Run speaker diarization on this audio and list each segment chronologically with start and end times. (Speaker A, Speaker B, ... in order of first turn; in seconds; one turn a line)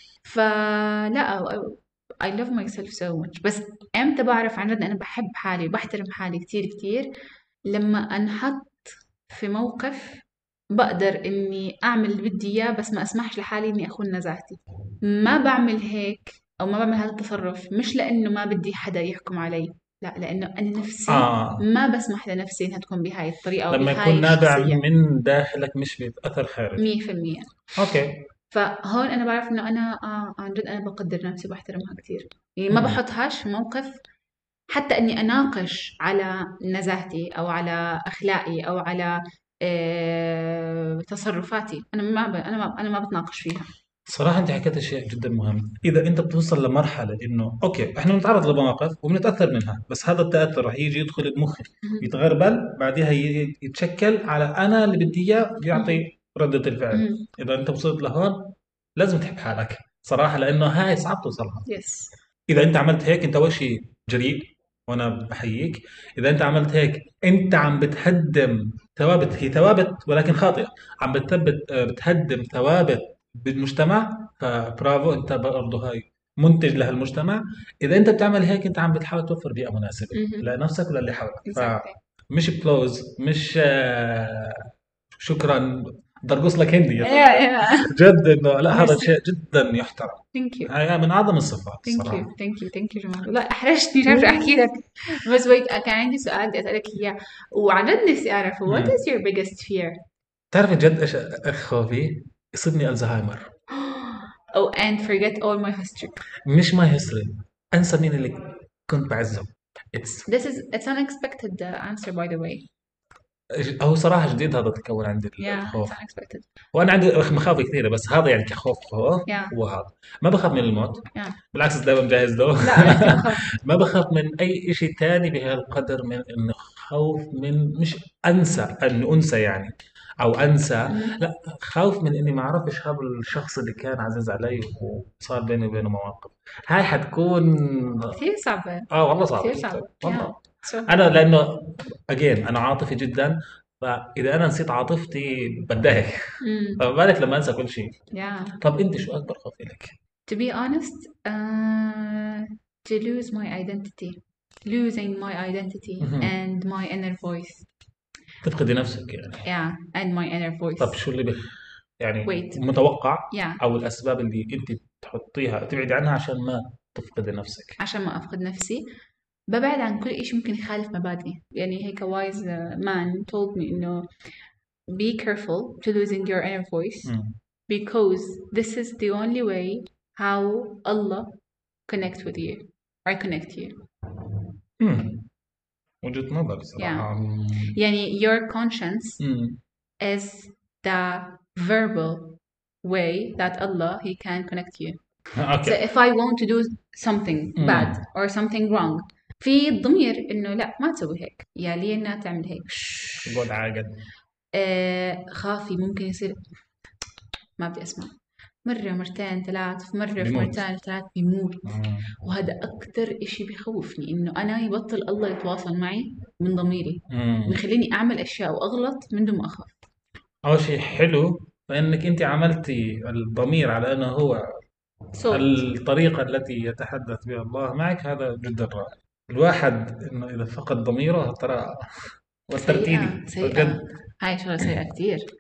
Speaker A: 0.2-7.1
Speaker A: 7.7-24.8
Speaker B: 21.1-21.6
Speaker B: 23.7-26.9
Speaker A: 26.8-27.5
Speaker B: 27.8-28.2
Speaker A: 28.5-34.0
Speaker B: 32.7-33.0
Speaker A: 34.7-43.7
Speaker B: 44.0-61.6
Speaker A: 51.8-52.1
Speaker A: 55.7-56.0
Speaker A: 56.9-57.2
Speaker A: 61.6-62.1
Speaker B: 62.5-84.6
Speaker A: 80.1-80.5
Speaker A: 81.4-82.0
Speaker B: 85.2-92.3
Speaker A: 87.0-87.9
Speaker A: 88.7-89.1
Speaker A: 90.3-90.7
Speaker A: 91.8-100.0
Speaker B: 94.0-94.7
Speaker B: 98.7-99.0
Speaker B: 100.5-103.5
Speaker A: 103.7-106.2
Speaker B: 106.5-110.3
Speaker A: 110.3-112.7
Speaker B: 113.5-116.0
Speaker A: 115.4-116.5
Speaker B: 116.7-138.2
Speaker A: 119.3-119.5
Speaker A: 122.6-123.4
Speaker A: 130.9-131.2
Speaker A: 138.1-141.2
Speaker B: 138.9-148.0
Speaker A: 146.4-146.8
Speaker A: 148.1-148.6
Speaker B: 148.6-149.9
Speaker A: 150.3-157.7
Speaker B: 156.0-156.3
Speaker B: 158.4-159.5
Speaker A: 159.4-161.0
Speaker B: 160.8-167.8
Speaker A: 162.2-162.6
Speaker A: 163.3-163.6
Speaker A: 167.8-168.8
Speaker A: 169.5-174.1
Speaker A: 174.9-177.1
Speaker B: 177.0-177.4
Speaker A: 177.7-183.8
Speaker B: 184.8-185.2
Speaker B: 186.0-187.8
Speaker A: 186.8-187.1
Speaker A: 187.7-189.2
Speaker B: 189.2-189.6
Speaker A: 190.0-195.0
Speaker B: 195.3-195.8
Speaker A: 195.6-203.3
Speaker B: 197.6-198.0
Speaker B: 203.2-203.9
Speaker A: 204.6-206.4
Speaker A: 207.6-219.8
Speaker B: 210.2-210.6
Speaker B: 211.6-212.1
Speaker B: 217.1-217.6
Speaker B: 220.4-224.4
Speaker A: 225.1-225.7
Speaker B: 225.3-233.8
Speaker A: 232.6-235.2